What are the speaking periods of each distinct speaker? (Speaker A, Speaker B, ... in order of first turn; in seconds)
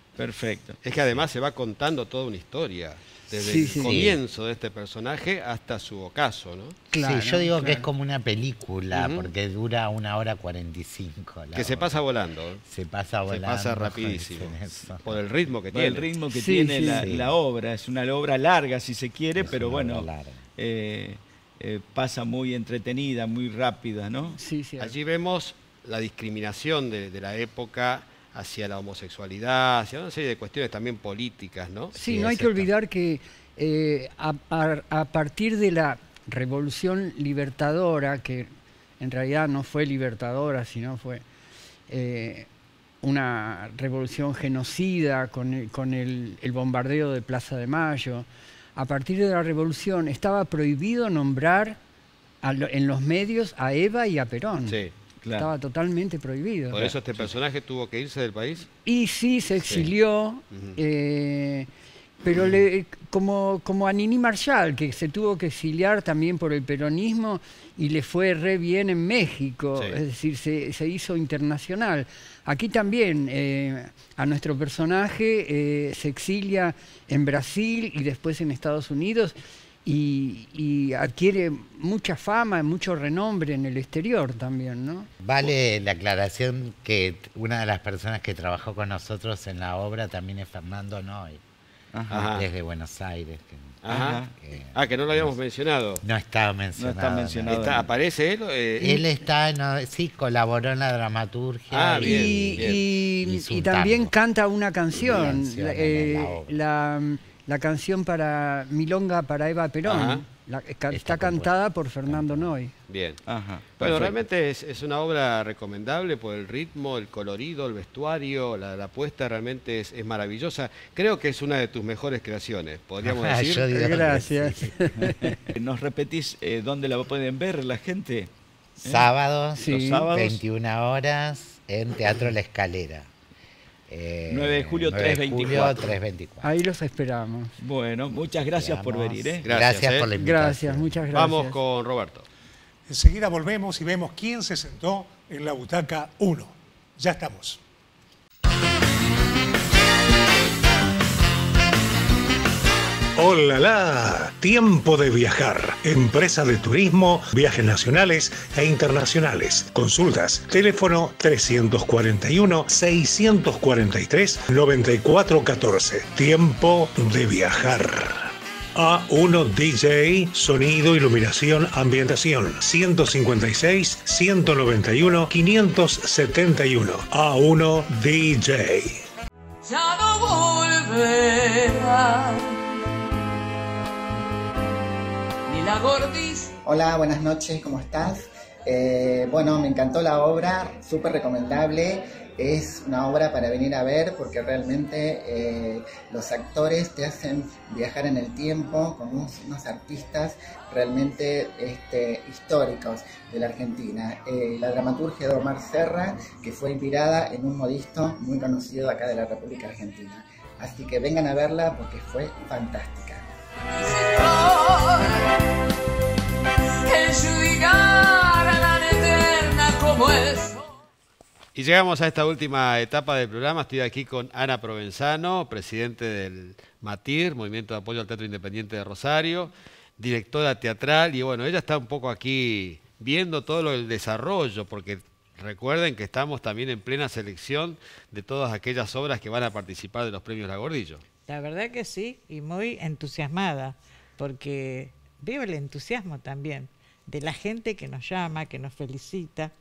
Speaker A: 0.2-0.8, 15.7-24.4, 55.2-55.5, 56.8-57.3, 91.9-92.3, 93.9-94.3, 96.8-97.9, 113.3-114.2, 125.6-128.3, 128.8-129.1, 129.7-130.4, 134.3-136.0, 137.6-139.5
Speaker B: 0.8-6.8, 8.9-9.3, 11.6-12.6, 13.3-16.1, 24.8-32.6, 54.7-54.9, 56.7-58.7, 59.6-59.9, 60.5-60.8, 92.1-92.5, 93.8-94.2, 94.7-96.0, 97.5-99.1, 101.7-102.8, 109.8-110.2, 112.9-113.2, 113.7-124.4, 139.4-140.1, 141.1-142.3, 221.6-241.0
Speaker C: 3.3-4.0, 6.9-7.9, 16.3-17.1, 24.4-24.9, 31.9-41.2, 41.9-42.5, 43.0-51.8, 52.4-54.8, 55.4-56.8, 58.9-61.7, 62.2-85.1, 102.0-112.7, 123.7-125.4, 129.6-130.3, 136.4-137.6, 140.2-141.6
Speaker D: 3.7-4.2, 6.9-12.0, 12.6-15.2, 17.0-17.4, 19.4-20.4, 85.2-91.4, 92.2-95.4, 96.0-97.9, 98.8-104.1, 104.9-106.6, 110.9-112.5, 123.0-124.7, 128.8-133.1, 133.9-136.5, 138.6-141.0
Speaker E: 142.9-147.6, 153.2-179.0
Speaker F: 179.6-182.7, 185.5-186.5, 213.8-215.3, 216.8-220.7
Speaker G: 186.7-213.3
Speaker H: 241.3-249.5